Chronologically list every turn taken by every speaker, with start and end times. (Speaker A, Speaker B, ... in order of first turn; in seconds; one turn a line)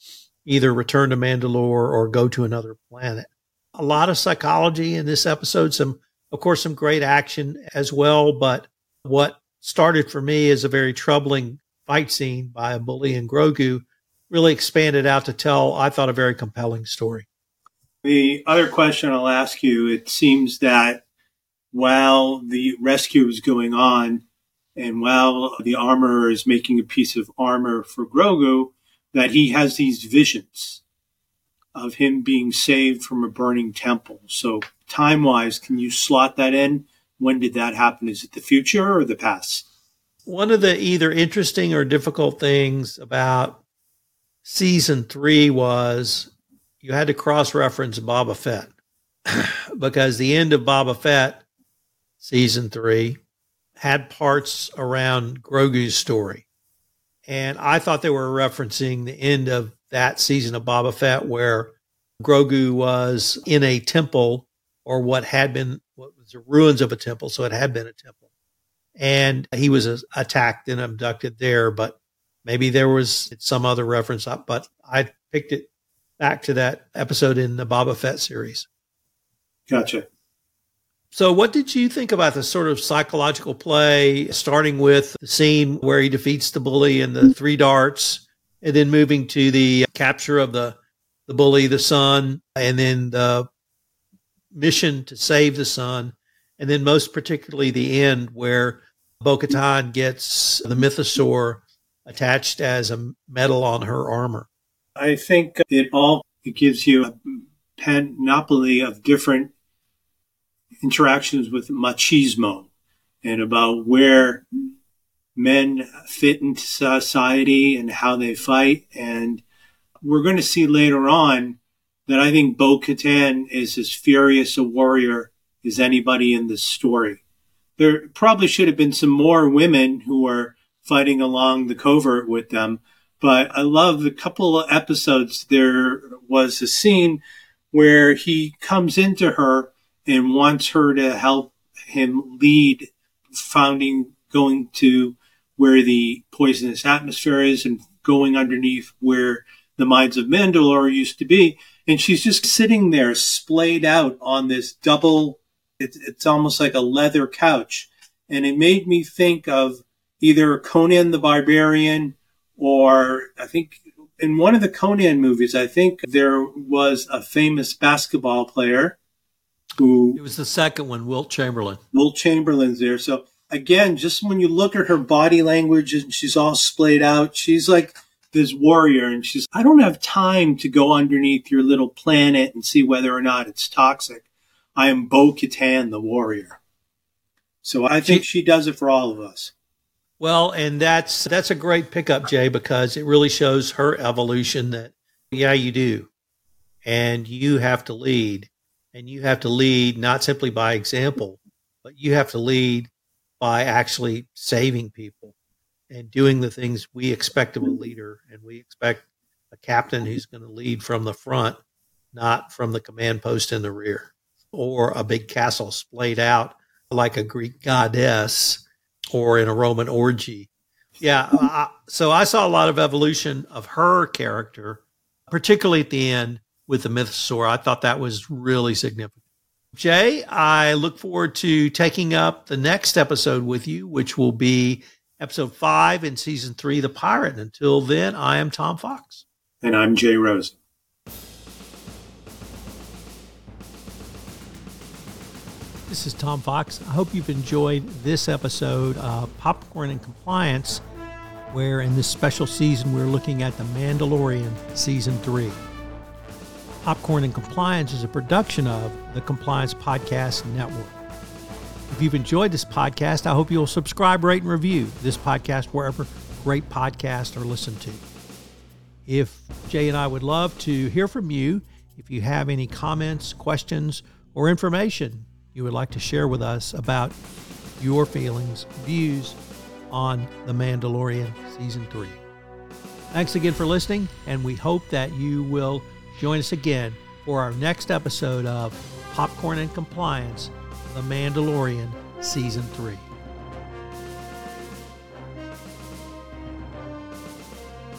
Speaker A: 0.4-17.3
Speaker B: 18.0-21.0
Speaker B: 21.7-24.2
Speaker B: 24.8-30.8
Speaker B: 31.7-39.6
Speaker A: 40.2-43.6
Speaker A: 44.4-46.3
Speaker A: 46.8-48.7
Speaker A: 49.3-51.4
Speaker A: 52.2-53.2
Speaker A: 53.8-56.4
Speaker A: 57.3-68.2
Speaker A: 69.0-75.7
Speaker A: 76.2-78.7
Speaker B: 79.7-80.0
Speaker A: 81.1-93.5
Speaker A: 94.5-104.5
Speaker B: 105.0-109.5
Speaker B: 110.8-112.7
Speaker B: 113.2-114.5
Speaker B: 115.3-119.4
Speaker B: 120.0-127.2
Speaker B: 127.8-137.2
Speaker B: 137.7-169.0
Speaker B: 169.8-170.2
Speaker A: 170.1-171.8
Speaker B: 171.9-186.6
Speaker B: 187.6-189.5
Speaker A: 190.2-196.1
Speaker A: 196.8-202.9
Speaker A: 203.4-205.3
Speaker A: 205.9-211.6
Speaker A: 212.1-220.5
Speaker A: 221.0-229.2
Speaker A: 229.7-239.2
Speaker B: 239.6-240.6
Speaker A: 245.9-250.8
Speaker A: 251.5-255.6
Speaker A: 256.8-261.0
Speaker A: 261.9-268.0
Speaker A: 269.1-277.2
Speaker A: 277.8-279.4
Speaker A: 279.9-282.2
Speaker A: 283.1-293.1